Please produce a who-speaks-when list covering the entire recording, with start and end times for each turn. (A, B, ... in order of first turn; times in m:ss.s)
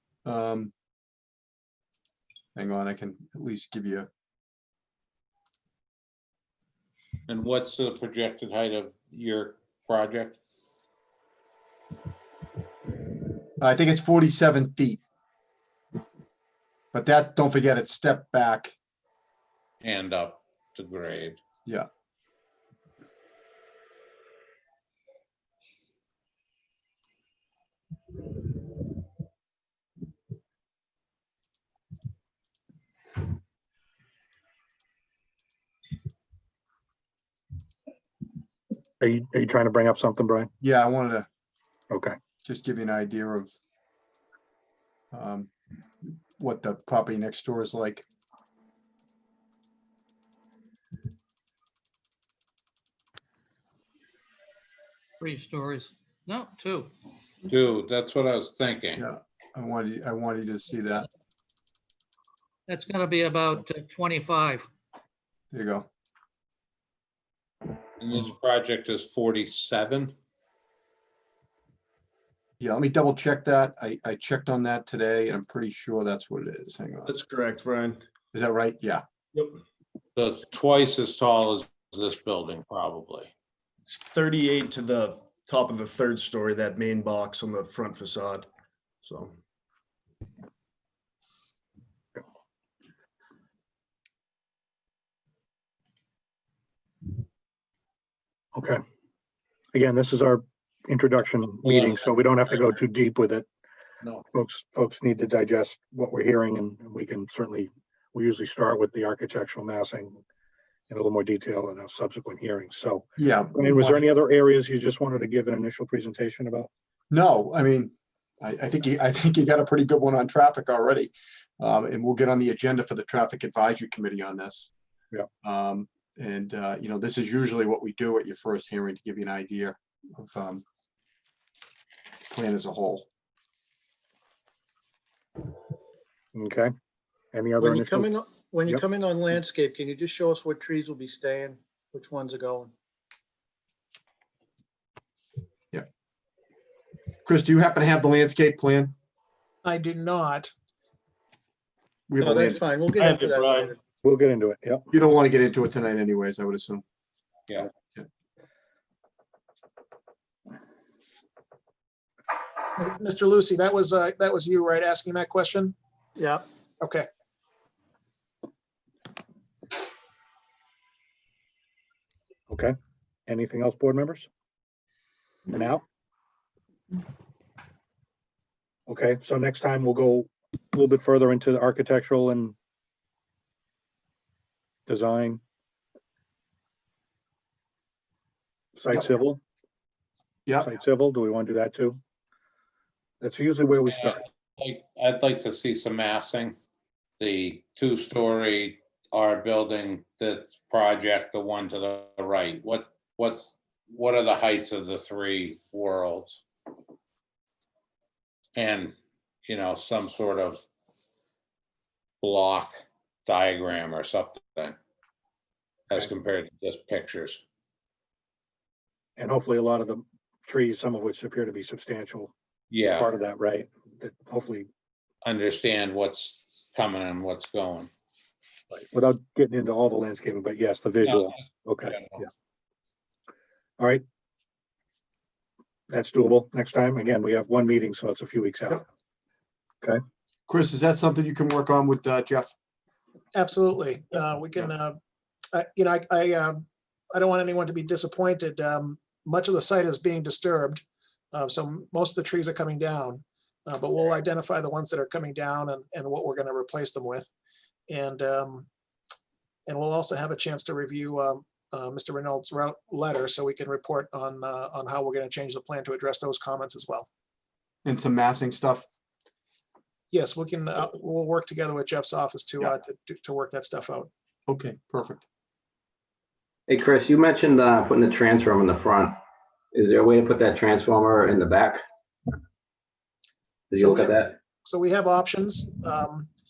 0:00.2-0:00.7 A
0:02.6-0:04.1 A
0:07.3-0:10.4 B
0:13.6-0:15.0 A
0:16.9-0:18.8 A
0:19.8-0:21.4 B
0:39.0-0:40.5 C
0:40.6-0:41.3 A
0:41.9-0:42.2 C
0:42.4-0:43.6 A
0:45.1-0:45.5 A
0:46.4-0:48.0 A
0:55.2-0:56.9 D
0:57.5-0:59.0 B
0:59.0-1:01.1 A
1:02.7-1:04.7 D
1:05.5-1:05.9 A
1:08.0-1:10.1 B
1:12.6-1:17.1 A
1:17.0-1:18.0 E
1:18.3-1:19.0 A
1:20.2-1:23.3 B
1:23.9-1:28.5 E
1:29.0-1:29.3 E
1:38.6-1:38.8 C
1:39.7-1:43.4 C
1:41.6-1:42.7 B
1:44.3-1:50.2 C
1:50.9-1:56.7 C
1:53.2-1:54.0 A
1:57.1-2:04.7 A
2:05.4-2:10.6 A
2:12.3-2:13.1 A
2:16.3-2:16.7 C
2:17.3-2:18.1 C
2:17.6-2:22.7 F
2:27.3-2:28.9 A
2:29.6-2:30.5 G
2:32.1-2:32.6 A
2:32.2-2:33.8 F
2:33.0-2:33.7 E
2:34.0-2:34.9 C
2:34.9-2:36.8 A
2:42.8-2:45.8 G
2:46.2-2:46.4 F
2:52.5-2:52.8 C
2:53.3-2:54.3 C
2:55.5-2:55.8 C
2:58.9-3:02.6 C
3:04.9-3:05.4 C
3:08.8-3:09.4 C
3:10.6-3:12.0 C
3:13.2-3:14.2 C
3:13.9-3:16.6 B
3:17.2-3:26.4 B
3:28.6-3:29.0 B
3:29.5-3:30.7 B
3:32.2-3:32.7 B
3:33.3-3:34.8 B
3:35.9-3:37.4 B
3:39.2-3:42.3 C
3:42.7-3:43.1 B
3:42.9-3:44.7 C
3:45.2-3:47.9 B
3:48.7-3:52.2 C
3:51.0-3:52.2 B
3:55.9-3:58.9 C
4:00.5-4:02.5 A
4:03.3-4:05.0 G
4:05.5-4:10.8 G
4:11.3-4:17.3 G
4:17.9-4:18.7 G
4:19.7-4:27.1 G
4:27.8-4:28.8 A
4:30.1-4:34.1 G
4:34.5-4:35.2 A
4:36.7-4:39.2 H
4:39.7-4:41.8 H
4:43.7-4:44.4 H
4:43.8-4:46.3 G